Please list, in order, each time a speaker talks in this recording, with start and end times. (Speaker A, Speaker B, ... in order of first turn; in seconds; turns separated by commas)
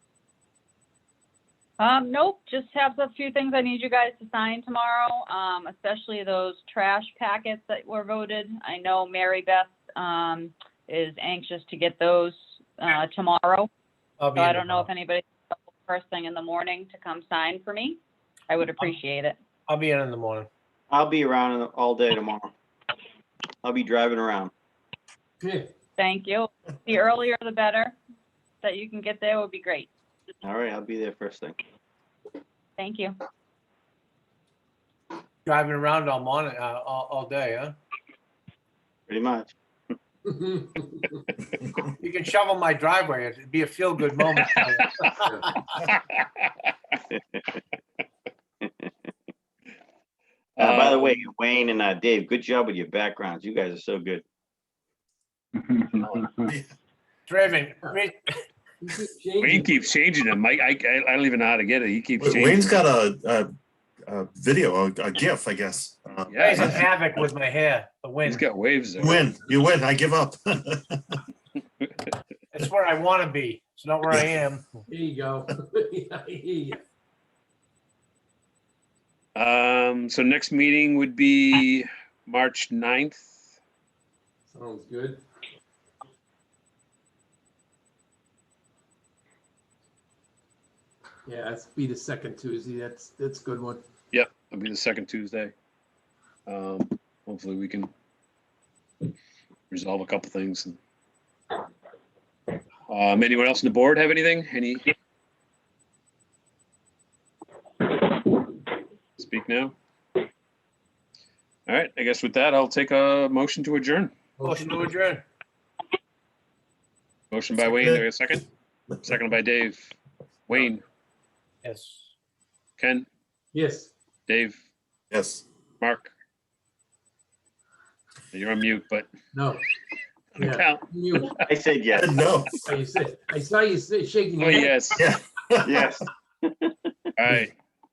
Speaker A: 1.8-13.7, Speaker B: 14.2-14.9, Speaker A: 14.3-19.4, Speaker B: 19.7-20.5, Speaker C: 20.9-22.5, Speaker C: 23.6-24.5, Speaker D: 25.4-25.7, Speaker A: 26.0-28.0, Speaker A: 28.6-29.9, Speaker C: 30.4-31.6, Speaker A: 32.8-33.2, Speaker B: 35.5-37.8, Speaker C: 39.1-39.9, Speaker D: 40.2-41.2, Speaker B: 42.0-45.8, Speaker E: 44.3-46.5, Speaker D: 45.1-45.4, Speaker C: 48.6-48.9, Speaker E: 50.6-51.2, Speaker C: 50.6-54.2, Speaker E: 55.9-56.3, Speaker B: 57.3-58.3, Speaker D: 58.8-59.7, Speaker E: 59.4-62.8, Speaker F: 62.2-63.5, Speaker F: 64.1-66.9, Speaker E: 66.3-66.9, Speaker B: 66.4-68.4, Speaker E: 68.2-69.2, Speaker F: 69.0-71.2, Speaker B: 72.5-74.8, Speaker D: 74.9-76.8, Speaker E: 79.3-83.4, Speaker D: 84.5-85.2, Speaker D: 91.2-93.8, Speaker E: 94.1-95.5, Speaker E: 96.5-97.9, Speaker E: 99.7-100.8, Speaker E: 102.9-104.8, Speaker E: 109.2-109.7, Speaker E: 111.7-114.1, Speaker D: 114.4-114.8, Speaker B: 114.4-115.2, Speaker E: 117.3-118.5, Speaker F: 117.5-118.0, Speaker E: 119.0-120.0, Speaker E: 120.5-120.8, Speaker B: 121.6-122.1, Speaker E: 122.8-123.1, Speaker D: 123.5-123.9, Speaker E: 124.3-124.6, Speaker F: 125.1-125.4, Speaker E: 125.8-126.1, Speaker E: 128.3-129.1, Speaker D: 129.3-129.6, Speaker E: 130.3-131.3, Speaker D: 130.3-131.3, Speaker C: 131.4-132.1, Speaker F: 131.9-132.6, Speaker D: 132.7-134.9, Speaker E: 134.4-135.0, Speaker F: 134.9-135.9, Speaker C: 135.6-136.8, Speaker E: 137.2-137.5